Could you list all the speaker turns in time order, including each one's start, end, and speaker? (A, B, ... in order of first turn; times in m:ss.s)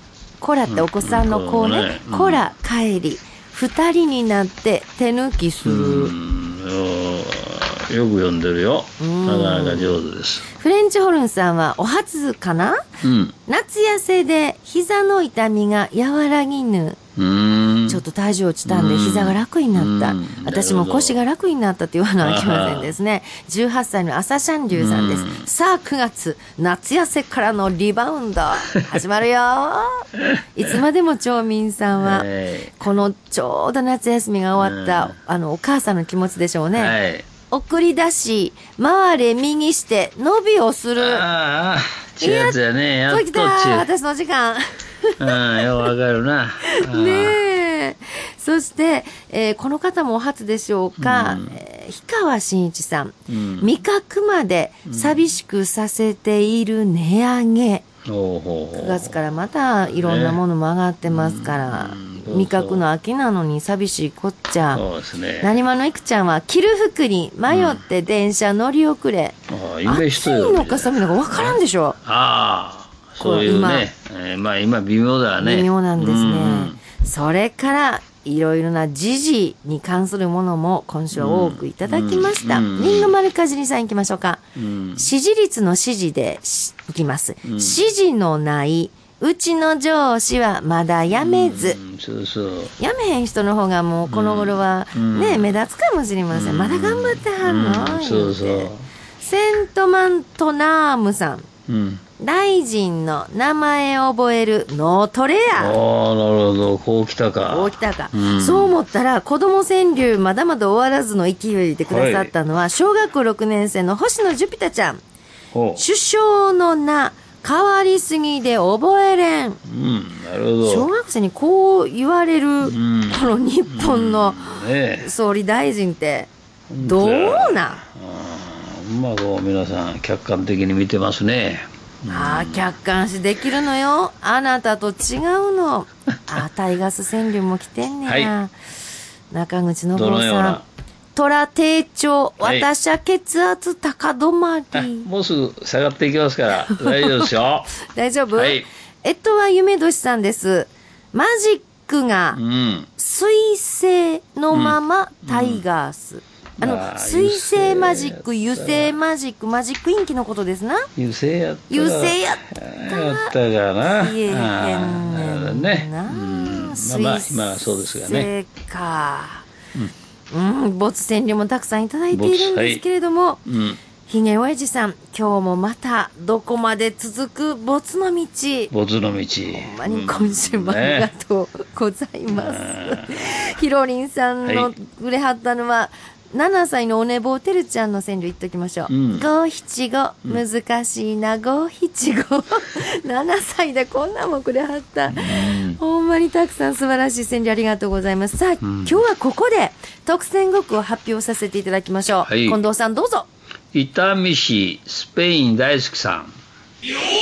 0:00.4-0:06.1 A
0:00.7-0:02.4 B
0:05.6-0:10.4 B
0:09.0-0:10.0 A
0:10.5-0:12.8 A
0:13.0-0:13.4 B
0:13.4-0:17.0 A
0:17.2-0:18.0 B
0:17.9-0:32.3 A
0:18.7-0:21.2 B
0:22.2-0:22.9 B
0:24.7-0:25.4 B
0:31.9-0:32.7 B
0:32.8-0:37.0 A
0:34.6-0:35.1 B
0:36.7-0:37.2 B
0:37.5-0:41.2 A
0:41.0-0:43.9 B
0:42.2-0:42.6 A
0:43.1-0:45.8 A
0:45.2-0:47.4 B
0:46.7-0:57.8 A
0:51.0-0:51.6 B
0:53.3-0:53.7 B
0:54.9-0:55.2 B
0:58.0-0:59.2 B
0:58.7-1:04.8 A
1:00.0-1:00.4 B
1:01.1-1:02.8 B
1:04.7-1:05.6 B
1:05.4-1:12.0 A
1:07.5-1:07.8 B
1:09.5-1:16.8 B
1:13.2-1:13.8 A
1:15.4-1:24.4 A
1:21.1-1:23.1 B
1:24.6-1:25.1 B
1:25.0-1:31.8 A
1:27.4-1:27.8 B
1:31.1-1:32.7 B
1:32.8-1:41.5 A
1:34.0-1:35.5 B
1:36.3-1:38.8 B
1:41.7-1:42.0 B
1:42.2-1:45.8 A
1:45.6-1:48.7 B
1:47.5-1:55.0 A
1:51.9-1:52.3 B
1:55.5-1:55.8 B
1:55.8-1:59.6 A
1:59.6-2:00.9 B
2:00.6-2:07.8 A
2:02.6-2:05.1 B
2:06.7-2:12.7 B
2:12.1-2:18.5 A
2:18.0-2:18.3 B
2:19.3-2:20.6 A
2:19.9-2:20.6 B
2:21.1-2:25.1 A
2:22.4-2:22.7 B
2:24.7-2:27.8 B
2:26.5-2:27.3 A
2:27.9-2:32.4 A
2:28.3-2:28.7 B
2:32.3-2:32.9 B
2:33.0-2:40.9 A
2:34.5-2:35.6 B
2:36.6-2:38.9 B
2:41.0-2:48.3 B
2:41.7-2:49.4 A
2:50.3-2:53.4 A
2:52.1-2:52.8 B
2:53.4-2:53.8 B
2:54.1-2:58.7 A
2:58.7-3:01.1 B
2:59.5-3:23.3 A
3:02.3-3:03.4 B
3:04.4-3:04.7 B
3:08.9-3:09.3 B
3:15.1-3:15.8 B
3:18.6-3:19.0 B
3:22.2-3:22.6 B
3:23.7-3:26.3 B